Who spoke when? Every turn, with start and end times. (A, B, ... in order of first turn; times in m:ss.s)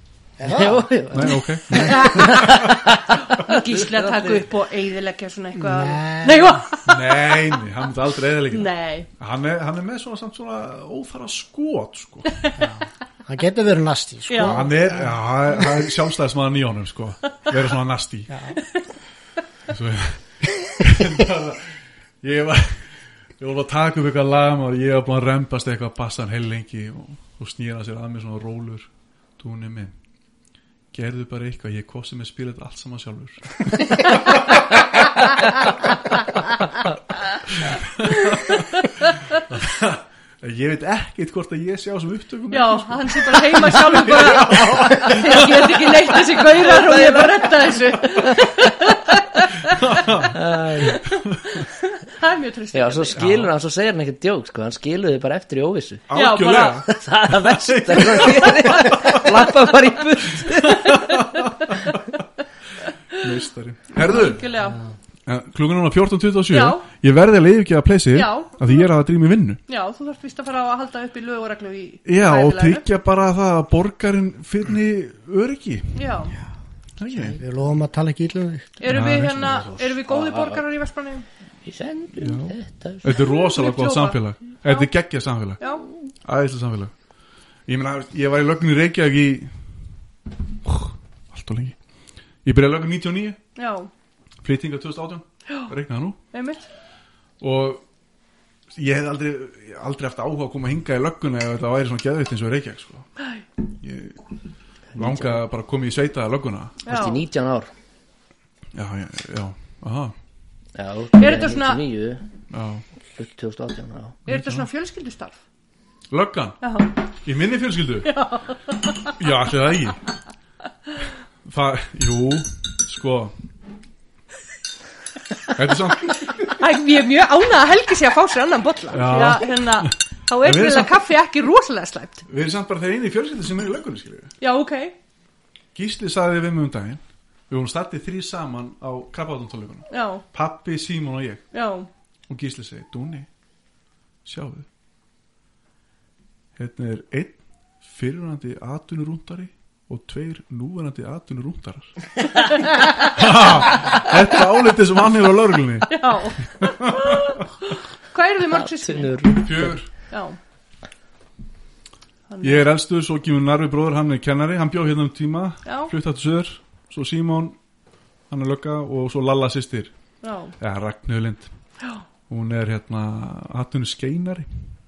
0:00.4-0:02.5 A
0:00.4-0:04.4 B
0:01.1-0:02.8 C
0:01.8-0:02.5 D
0:03.2-0:07.2 D
0:05.6-0:06.9 A
0:06.8-0:12.3 C
0:08.5-0:09.1 D
0:12.6-0:15.8 A
0:14.3-0:14.6 D
0:14.4-0:18.3 C
0:18.3-0:18.6 A
0:19.7-0:28.9 C
0:29.4-0:29.9 C
0:30.9-0:34.1 C
0:37.5-0:38.8 C
0:38.2-0:39.0 D
0:39.4-0:46.0 C
0:42.5-0:50.1 D
0:46.5-0:48.9 B
0:49.7-0:51.6 C
0:50.2-0:51.2 B
0:50.9-0:53.2 D
0:52.7-0:56.0 B
0:53.2-0:53.5 C
0:56.1-0:59.5 C
0:56.1-0:56.8 D
0:56.8-1:01.2 B
1:00.2-1:01.9 C
1:01.4-1:01.7 D
1:03.1-1:04.4 C
1:03.9-1:04.8 D
1:05.3-1:09.6 C
1:06.5-1:06.9 D
1:08.1-1:08.9 D
1:09.7-1:12.8 D
1:12.1-1:16.0 C
1:15.9-1:16.4 D
1:17.0-1:17.4 C
1:17.1-1:17.4 B
1:17.4-1:18.8 A
1:18.8-1:21.2 D
1:18.9-1:19.5 C
1:19.3-1:20.6 B
1:21.6-1:23.0 B
1:22.2-1:25.6 C
1:23.0-1:24.9 D
1:25.6-1:25.8 D
1:26.2-1:26.9 C
1:27.7-1:29.7 C
1:30.6-1:31.8 C
1:32.4-1:33.4 C
1:33.6-1:33.9 D
1:34.4-1:36.2 C
1:36.3-1:36.6 D
1:37.4-1:37.8 C
1:38.7-1:43.1 C
1:43.7-1:44.2 C
1:44.9-1:45.4 B
1:44.9-1:46.8 C
1:46.8-1:47.2 D
1:46.8-1:47.7 B
1:48.7-1:50.1 C
1:50.7-1:52.2 B
1:51.2-1:51.8 D
1:52.5-1:52.8 C
1:53.1-1:54.2 B
1:54.2-1:54.7 C
1:54.3-1:55.4 D
1:56.1-1:56.6 C
1:56.6-1:57.0 D
1:57.2-1:58.1 C
1:58.0-1:59.2 D
1:59.0-2:00.0 C
2:01.4-2:03.3 C
2:05.5-2:06.6 C
2:06.4-2:12.2 D
2:08.9-2:11.0 C
2:12.3-2:14.3 C
2:14.4-2:14.9 D
2:15.7-2:21.4 C
2:19.9-2:20.2 D
2:21.5-2:21.9 D
2:22.3-2:23.3 C
2:24.2-2:24.7 C
2:26.6-2:32.1 C
2:32.5-2:33.1 D
2:33.0-2:37.4 C
2:35.9-2:39.4 D
2:38.5-2:39.8 B
2:39.4-2:39.9 C
2:40.1-2:40.4 D
2:42.3-2:42.6 D
2:42.4-2:47.6 C
2:45.6-2:45.9 D
2:48.3-2:49.9 C
2:50.2-2:50.5 D
2:50.6-2:51.5 C
2:52.3-2:54.5 C